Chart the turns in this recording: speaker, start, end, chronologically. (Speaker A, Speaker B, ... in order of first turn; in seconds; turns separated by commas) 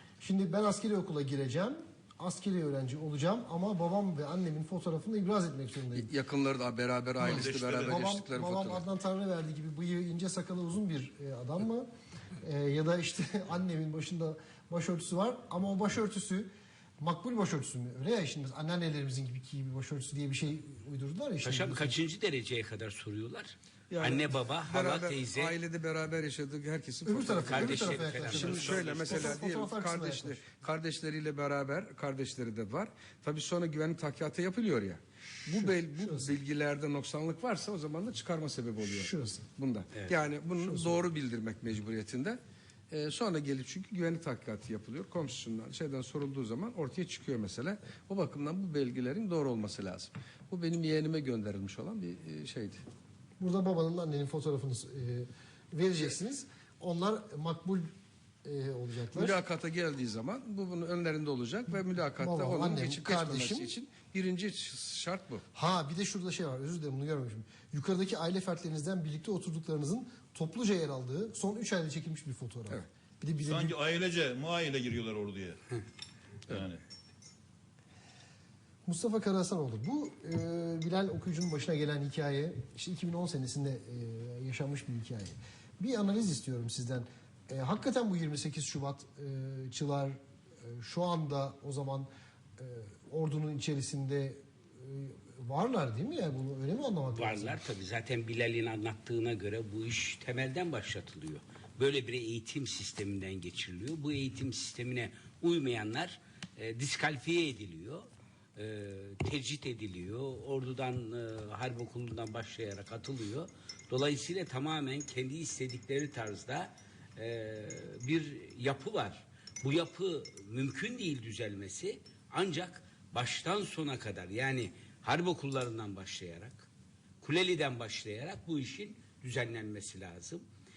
Speaker A: 0.2-6.1, Speaker B: 6.0-8.9, Speaker A: 7.2-11.9, Speaker C: 7.2-8.1, Speaker A: 12.4-16.5, Speaker A: 17.0-22.0, Speaker D: 21.4-25.6, Speaker B: 23.9-42.4, Speaker A: 27.1-30.4, Speaker D: 27.4-28.7, Speaker C: 28.5-29.4, Speaker A: 35.6-36.3, Speaker A: 38.8-39.5, Speaker A: 40.6-41.0, Speaker B: 42.9-52.8, Speaker A: 53.4-57.9, Speaker A: 58.4-59.4, Speaker B: 59.1-65.4, Speaker A: 62.2-63.8, Speaker A: 65.5-73.8, Speaker C: 73.4-75.8, Speaker C: 76.5-76.8, Speaker A: 78.9-97.6, Speaker D: 97.1-126.7, Speaker D: 127.2-130.4